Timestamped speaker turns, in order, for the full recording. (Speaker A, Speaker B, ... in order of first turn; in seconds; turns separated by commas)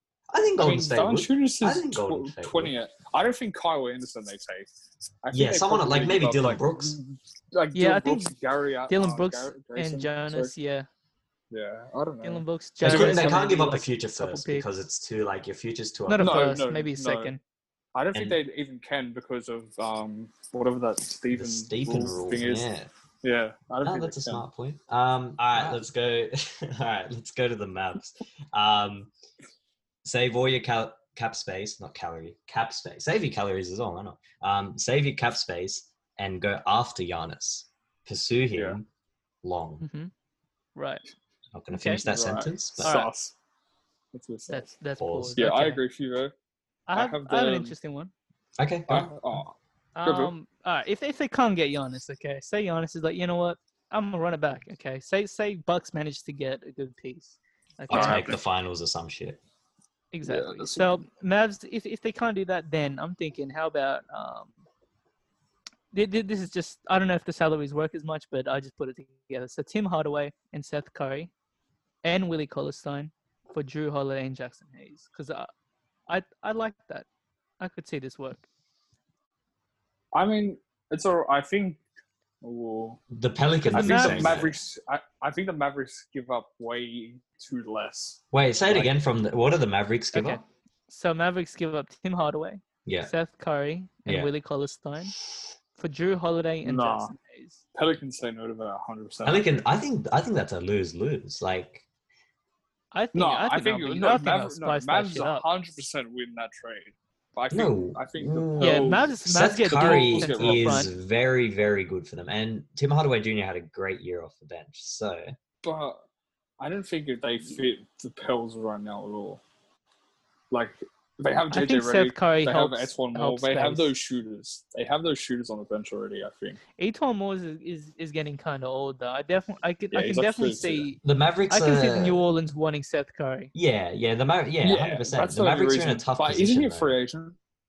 Speaker A: 0.3-2.8, Speaker B: 0.6-4.7, Speaker B: 5.2-10.5, Speaker A: 5.3-7.0, Speaker C: 7.8-8.3, Speaker C: 8.9-10.9, Speaker B: 11.5-13.7, Speaker C: 12.2-14.7, Speaker A: 12.8-16.5, Speaker C: 16.1-17.4, Speaker B: 16.2-17.4, Speaker B: 17.9-22.7, Speaker A: 18.1-18.4, Speaker A: 21.3-22.9, Speaker B: 23.2-24.4, Speaker A: 23.8-29.1, Speaker B: 25.6-25.8, Speaker A: 30.0-38.9, Speaker A: 39.4-39.9, Speaker C: 39.8-40.1, Speaker C: 40.8-41.0, Speaker A: 41.5-43.0, Speaker C: 41.7-42.0, Speaker B: 42.1-43.4, Speaker C: 42.8-43.1, Speaker B: 44.1-44.7, Speaker C: 44.5-45.8, Speaker A: 45.0-45.4, Speaker B: 45.4-46.3, Speaker C: 46.9-48.1, Speaker B: 46.9-47.7, Speaker A: 48.6-49.1, Speaker B: 48.9-50.3, Speaker C: 50.0-58.4, Speaker B: 57.9-58.4, Speaker A: 57.9-59.4, Speaker C: 60.1-64.5, Speaker B: 60.2-61.0, Speaker C: 65.9-71.3, Speaker C: 72.0-75.5, Speaker C: 76.1-77.1, Speaker C: 77.6-78.4, Speaker B: 80.1-81.8, Speaker B: 82.4-83.0, Speaker A: 83.1-84.6, Speaker B: 83.7-88.9, Speaker C: 83.7-84.5, Speaker A: 88.3-90.4, Speaker C: 90.1-95.2, Speaker A: 92.8-93.1, Speaker C: 95.8-97.6, Speaker B: 96.6-97.1, Speaker B: 97.7-99.5, Speaker A: 99.2-101.8, Speaker C: 102.9-105.5, Speaker B: 103.1-109.1, Speaker A: 107.5-115.3, Speaker C: 108.6-110.9, Speaker B: 109.7-110.9, Speaker B: 115.6-116.0, Speaker B: 116.6-119.4, Speaker B: 120.5-126.6, Speaker C: 121.5-123.9, Speaker C: 126.8-133.5, Speaker B: 129.9-130.9, Speaker A: 131.0-132.2, Speaker A: 133.5-137.0, Speaker B: 134.6-137.4